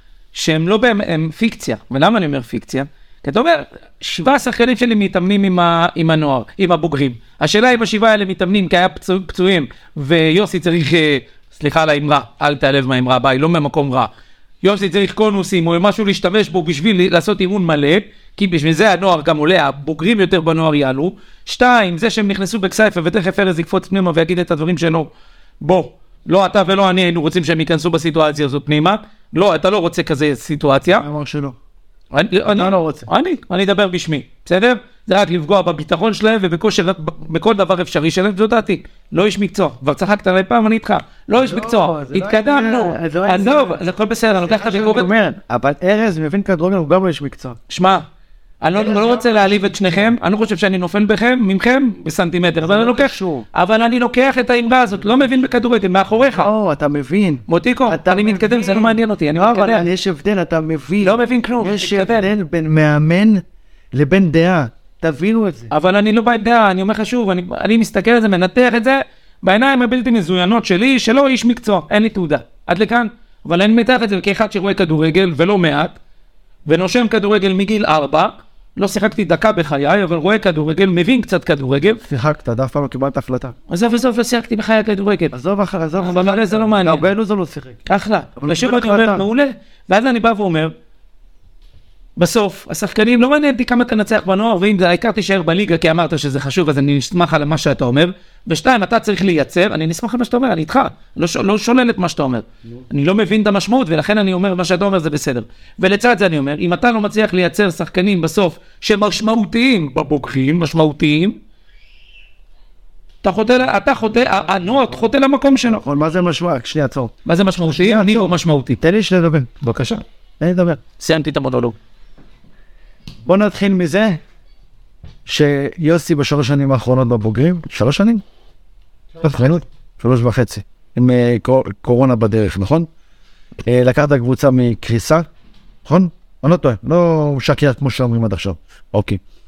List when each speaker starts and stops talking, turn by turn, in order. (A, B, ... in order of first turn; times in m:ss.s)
0:00.3-0:14.1 A
0:14.6-0:25.1 A
0:25.6-0:31.1 A
0:31.0-0:31.6 B
0:32.1-0:45.1 A
0:32.5-0:33.1 B
0:41.4-0:43.8 B
0:44.4-0:47.6 B
0:47.7-0:48.0 A
0:48.6-0:56.5 A
0:48.7-0:49.7 B
0:52.6-0:53.5 B
0:56.4-1:05.7 B
0:57.5-0:59.9 A
1:01.0-1:02.3 A
1:05.7-1:16.0 A
1:16.7-1:22.0 A
1:22.0-1:23.5 B
1:23.7-1:25.3 A
1:25.3-1:27.8 B
1:26.0-1:27.1 A
1:27.9-1:30.7 A
1:28.4-1:29.2 B
1:32.2-1:51.4 A
1:53.2-1:55.8 A
1:55.6-1:57.1 B
1:57.3-1:58.8 A
1:57.7-1:58.3 B
1:58.8-1:59.6 B
1:59.6-2:00.0 A
2:00.4-2:00.8 B
2:01.0-2:01.8 A
2:03.2-2:04.2 B
2:05.3-2:08.2 B
2:09.2-2:12.9 B
2:13.6-2:15.3 B
2:15.8-2:19.2 B